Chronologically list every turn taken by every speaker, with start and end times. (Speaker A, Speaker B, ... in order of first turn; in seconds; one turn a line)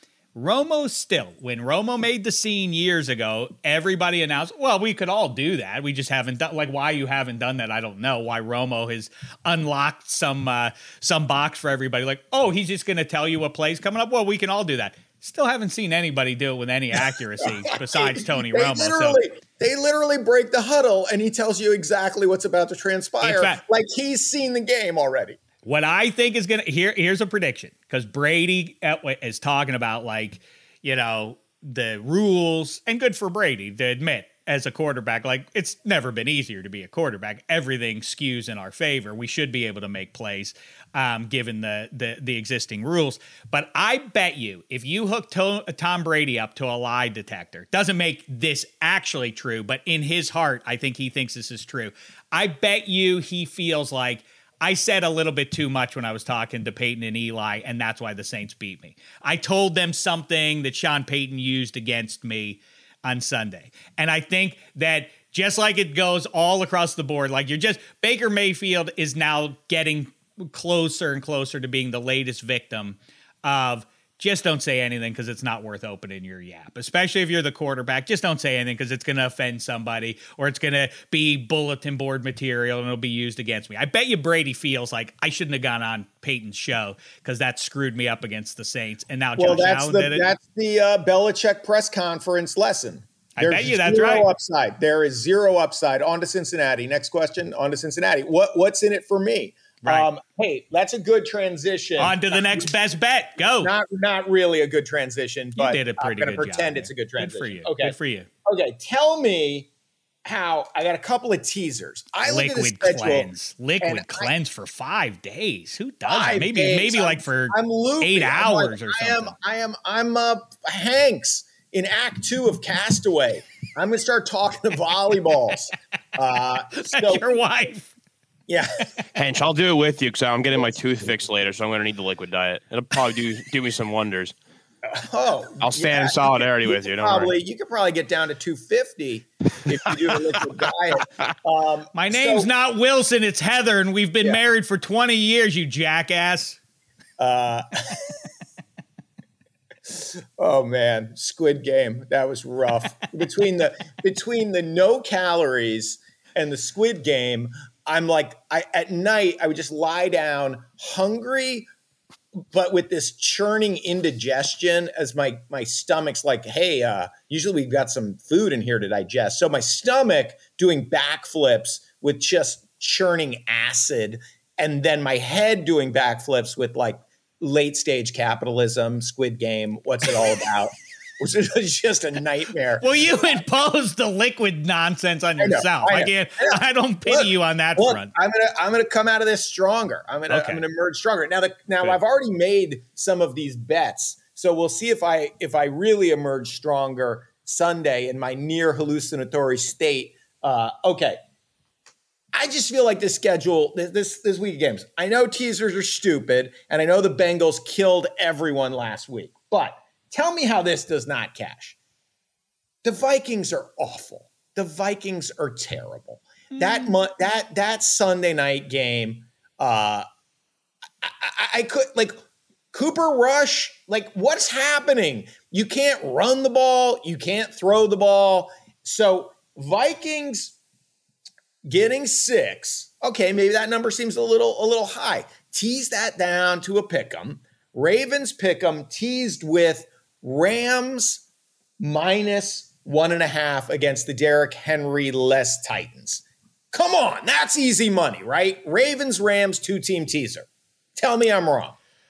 Speaker A: 0.3-19.2
Speaker B: 17.4-25.4
Speaker A: 23.2-23.6
Speaker A: 25.6-90.3
Speaker B: 89.4-102.7
Speaker A: 93.4-94.3
Speaker A: 99.8-100.1
Speaker A: 102.0-103.7
Speaker B: 103.6-109.7
Speaker A: 105.6-108.3
Speaker B: 110.2-114.3
Speaker A: 112.2-119.3
Speaker B: 116.0-127.3
Speaker A: 126.7-127.9
Speaker B: 128.5-128.8
Speaker C: 129.1-134.3
Speaker B: 134.8-142.5
Speaker C: 135.6-137.3
Speaker C: 140.1-140.4
Speaker A: 141.9-146.6
Speaker B: 147.2-148.2
Speaker B: 149.9-161.7
Speaker B: 162.5-183.4
Speaker A: 182.8-188.1
Speaker B: 185.4-201.2
Speaker A: 190.3-190.6
Speaker B: 202.3-211.8
Speaker B: 212.8-220.1
Speaker B: 221.0-222.2
Speaker B: 222.7-230.6
Speaker B: 231.7-241.2
Speaker B: 241.8-251.8